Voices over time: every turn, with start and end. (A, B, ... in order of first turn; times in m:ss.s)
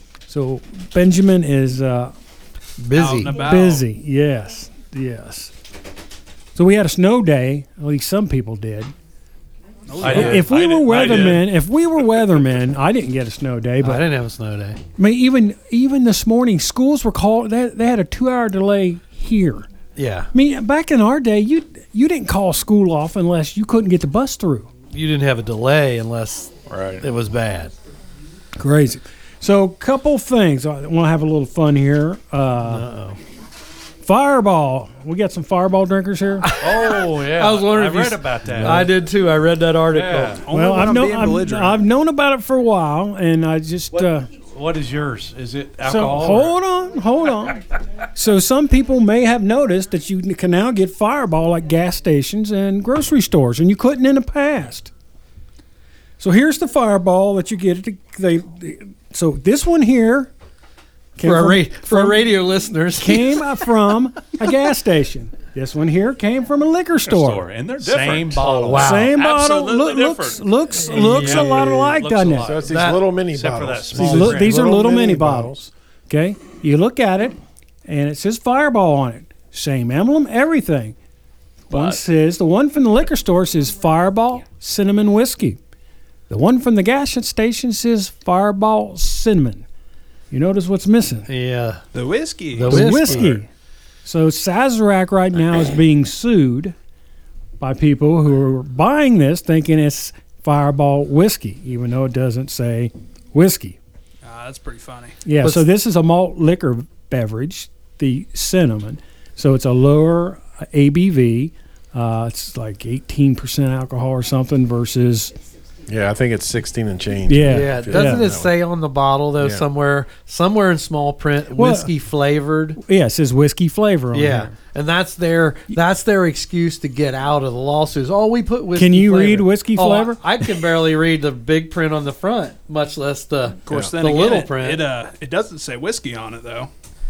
0:00.3-0:02.1 A
0:02.8-0:03.4 B
0:02.9-0:03.9 C
0:03.3-0:05.5 A
0:06.6-0:08.9 A
0:09.9-0:11.0 C
0:10.0-0:10.4 B
0:10.0-0:14.0 A
0:10.0-0:10.4 D
0:10.1-0:11.4 E
0:13.8-0:14.8 B
0:15.0-0:19.7 A
0:20.0-0:20.3 B
0:20.3-0:24.7 A
0:24.9-0:27.7 B
0:26.7-0:27.0 E
0:28.6-0:32.9 A
0:32.6-0:33.2 B
0:34.0-0:36.5 A
0:36.4-0:40.4 B
0:36.6-0:39.0 D
0:39.9-0:40.5 D
0:40.4-0:41.8 C
0:40.5-0:44.3 A
0:43.9-0:46.6 D
0:45.8-0:54.9 A
0:56.2-1:00.3 A
1:01.2-1:02.4 A
1:01.2-1:03.4 B
1:03.0-1:07.4 A
1:07.1-1:08.6 E
1:07.8-1:09.0 D
1:08.4-1:09.1 B
1:08.7-1:12.6 A
1:09.1-1:10.7 E
1:10.9-1:14.6 D
1:11.2-1:15.6 F
1:12.6-1:13.0 B
1:14.0-1:21.0 A
1:21.7-1:25.6 A
1:26.3-1:29.6 A
1:30.3-1:31.3 A
1:31.3-1:31.8 B
1:31.9-1:33.1 C
1:32.5-1:33.4 B
1:32.6-1:33.5 A
1:34.0-1:36.7 A
1:37.6-1:43.8 A
1:44.2-1:45.2 C
1:45.2-1:55.3 A
1:45.4-1:45.7 B
1:55.9-1:58.6 F
1:57.3-1:58.3 A
1:57.4-2:02.8 B
1:59.4-1:59.6 F
2:01.5-2:01.9 A
2:02.8-2:04.5 A
2:04.1-2:14.9 B
2:08.7-2:10.2 A
2:13.6-2:16.7 C